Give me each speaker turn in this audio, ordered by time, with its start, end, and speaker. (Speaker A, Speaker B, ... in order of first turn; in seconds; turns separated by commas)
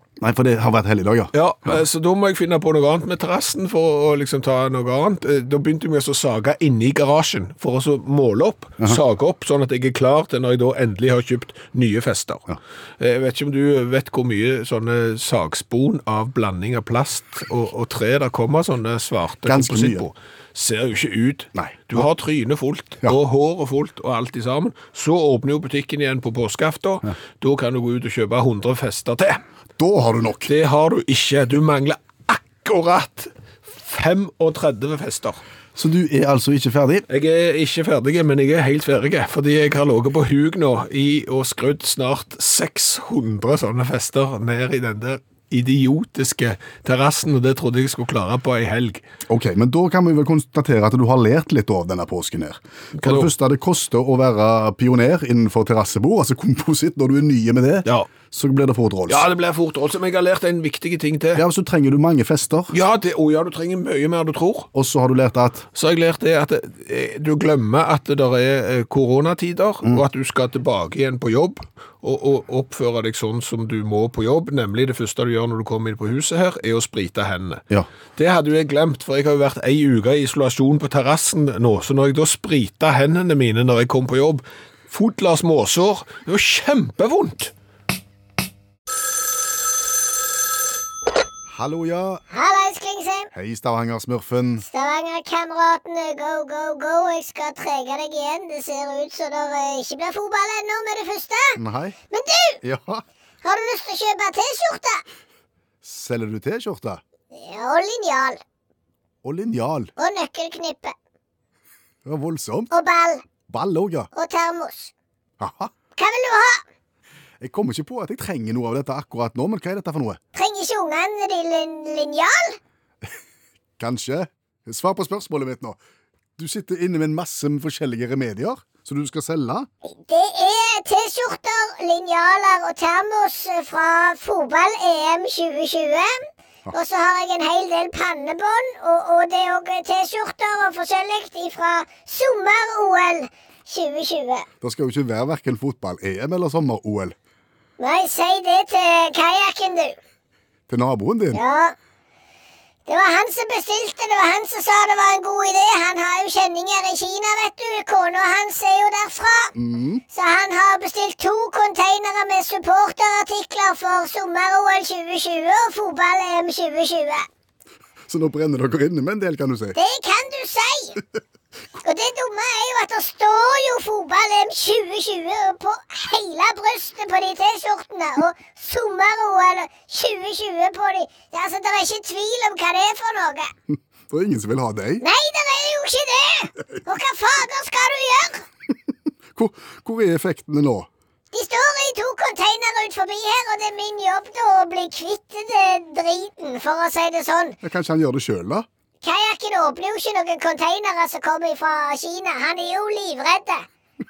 Speaker A: 0.2-1.3, Speaker B: 1.3-12.5, Speaker B: 13.0-29.4, Speaker A: 19.4-20.1, Speaker A: 21.6-21.8, Speaker A: 29.8-30.5, Speaker B: 30.5-35.4, Speaker A: 35.8-37.1, Speaker B: 37.1-49.0, Speaker A: 49.3-59.3, Speaker B: 53.0-53.3, Speaker B: 59.1-61.4, Speaker A: 61.4-62.7, Speaker B: 62.7-64.7, Speaker A: 64.7-65.6, Speaker B: 65.8-77.6, Speaker B: 78.2-87.5, Speaker A: 91.5-92.2, Speaker C: 92.3-93.3, Speaker A: 93.3-94.7, Speaker C: 94.6-101.6, Speaker A: 101.6-102.0, Speaker C: 102.1-102.6, Speaker A: 102.6-103.0, Speaker C: 103.4-105.0, Speaker A: 105.8-107.0, Speaker C: 107.3-108.4, Speaker A: 109.2-109.9, Speaker C: 110.0-111.0, Speaker A: 112.0-112.7, Speaker C: 112.7-113.2, Speaker A: 113.5-114.1, Speaker C: 114.1-114.9, Speaker A: 115.4-115.7, Speaker C: 116.0-116.6, Speaker A: 117.4-120.2, Speaker C: 120.3-122.6, Speaker A: 123.8-125.8, Speaker A: 126.4-129.7, Speaker C: 129.9-144.5, Speaker A: 144.6-147.2, Speaker C: 147.8-150.0, Speaker A: 150.7-151.4, Speaker C: 151.3-151.8, Speaker C: 152.9-159.5, Speaker A: 159.6-160.0, Speaker C: 160.1-167.3, Speaker A: 168.1-169.8, Speaker C: 169.8-171.0, Speaker C: 171.8-183.5, Speaker A: 183.7-185.0, Speaker C: 185.0-188.5, Speaker A: 189.3-190.9, Speaker C: 191.3-197.6, Speaker A: 197.6-198.7, Speaker C: 199.0-203.7